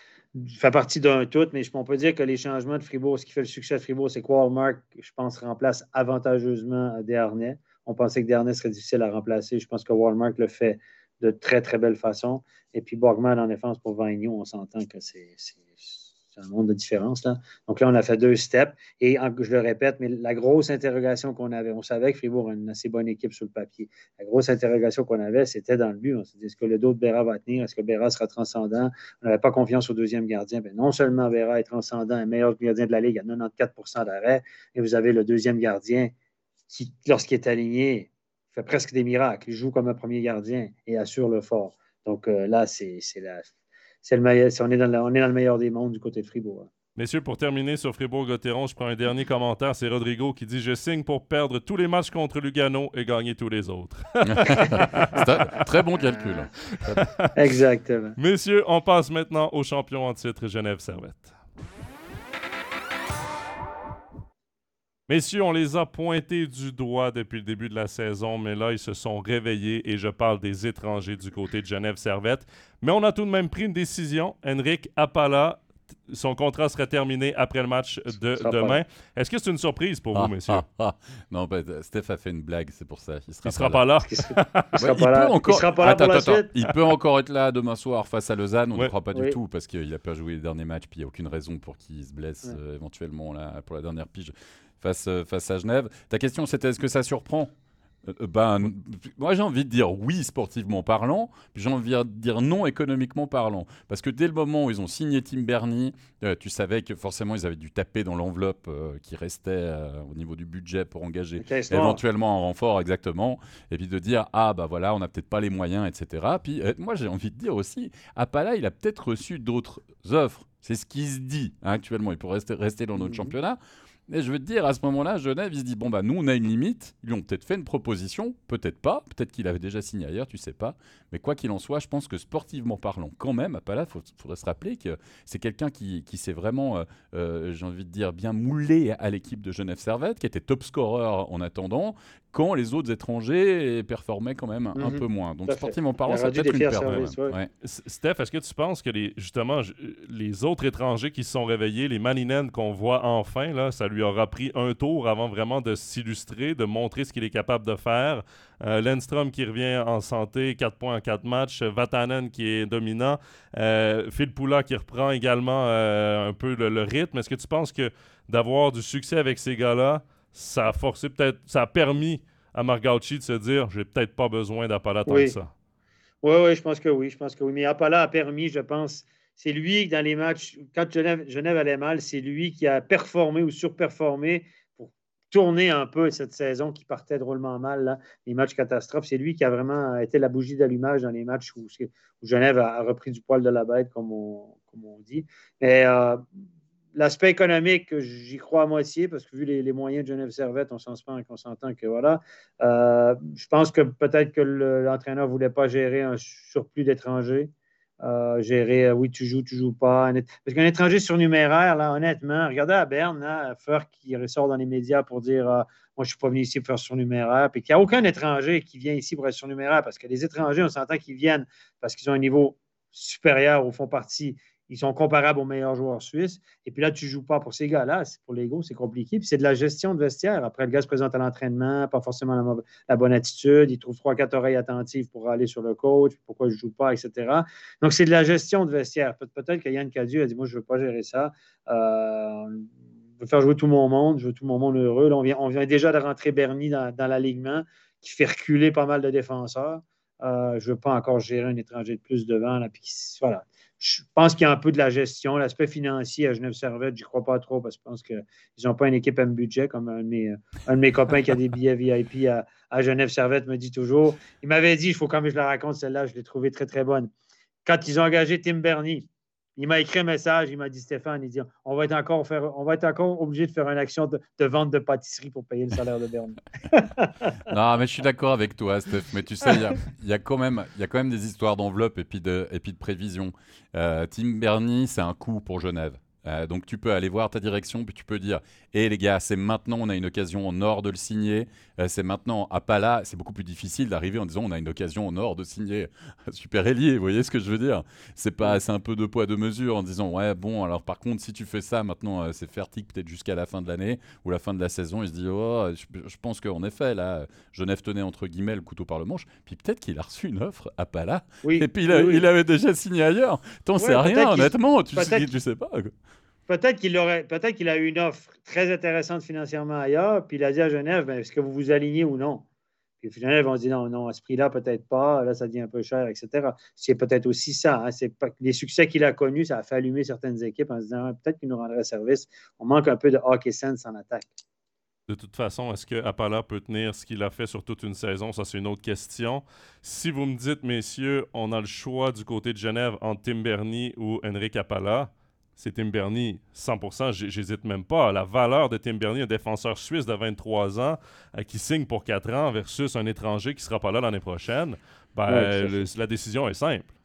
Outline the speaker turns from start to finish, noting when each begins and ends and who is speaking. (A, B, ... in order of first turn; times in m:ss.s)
0:00.3-0:36.1 A
0:36.7-0:43.5 A
0:44.0-0:46.7 A
0:47.0-0:55.7 B
0:54.2-0:57.0 C
0:54.5-0:54.9 A
0:56.7-0:57.3 B
0:57.3-0:58.2 A
0:58.2-1:01.3 B
1:05.1-1:20.6 B
1:18.4-1:18.8 A
1:20.1-1:23.8 C
1:23.4-1:24.7 B
1:24.1-1:26.5 A
1:24.8-1:37.5 C
1:38.0-2:27.5 C
1:51.4-1:52.0 A
2:03.0-2:03.3 A
2:24.7-2:27.4 A
2:27.6-2:55.5 B
2:55.1-2:55.4 A
2:56.2-3:16.2 A
3:16.9-3:27.5 A
3:28.0-4:02.7 A
4:03.2-4:27.1 A
4:27.6-4:37.3 A
4:37.5-5:15.9 C
5:11.4-5:12.2 A
5:13.8-5:15.3 A
5:16.5-5:22.4 A
5:23.0-5:34.3 A
5:35.1-5:56.9 B
5:55.3-5:55.8 A